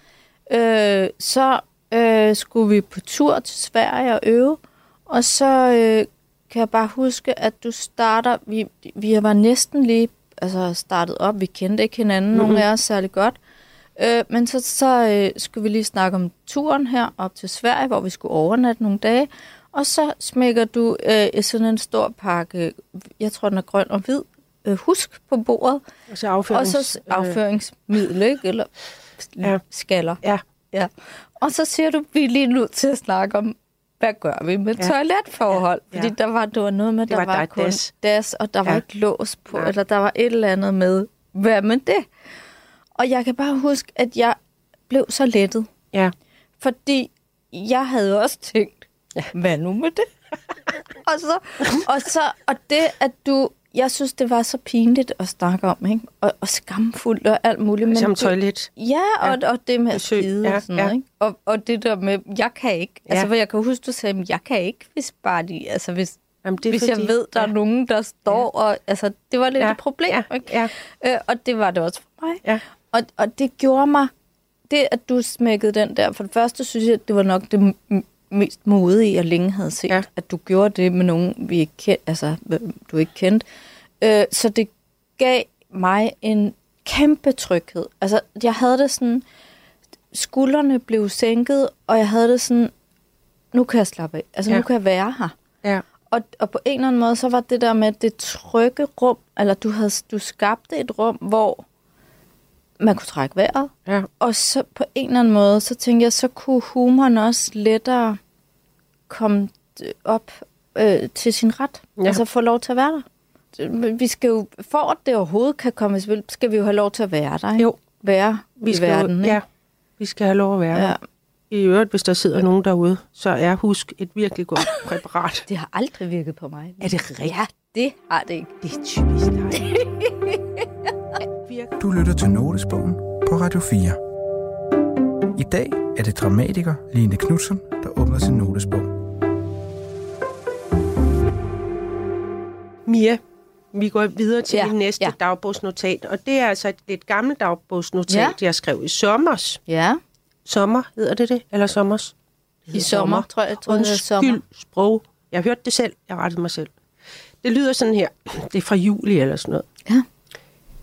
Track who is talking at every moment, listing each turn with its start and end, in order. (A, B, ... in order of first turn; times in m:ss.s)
0:00.5-0:13.4 A
0:12.3-0:12.6 B
0:14.0-0:25.8 A
0:26.1-0:27.4 B
0:26.5-0:28.7 A
0:29.2-0:30.2 A
0:30.7-0:42.0 A
0:37.1-0:37.9 B
0:43.0-0:44.4 A
0:44.9-0:45.7 A
0:46.6-0:50.1 A
0:51.0-1:06.2 A
0:57.9-0:58.7 B
0:59.9-1:00.9 B
1:06.4-1:07.5 B
1:06.7-1:14.1 A
1:09.6-1:10.7 B
1:14.7-1:23.4 A
1:24.0-1:29.2 A
1:30.1-1:32.7 A
1:33.5-1:35.3 A
1:36.1-1:41.6 A
1:42.8-1:48.2 A
1:49.1-1:59.4 A
1:58.6-1:59.4 B
2:00.0-2:01.0 B
2:00.7-2:01.0 A
2:01.5-2:05.4 B
2:05.5-2:08.5 A
2:06.8-2:07.3 B
2:08.6-2:09.7 B
2:09.5-2:10.4 A
2:11.4-2:11.7 B
2:11.8-2:14.0 C
2:15.4-2:18.9 C
2:22.8-2:23.2 B
2:23.7-2:29.6 B
2:24.5-2:25.1 A
2:28.1-2:28.4 A
2:29.7-2:30.0 A
2:30.4-2:32.1 B
2:32.6-2:36.7 B
2:32.7-2:34.4 A
2:37.4-2:39.6 B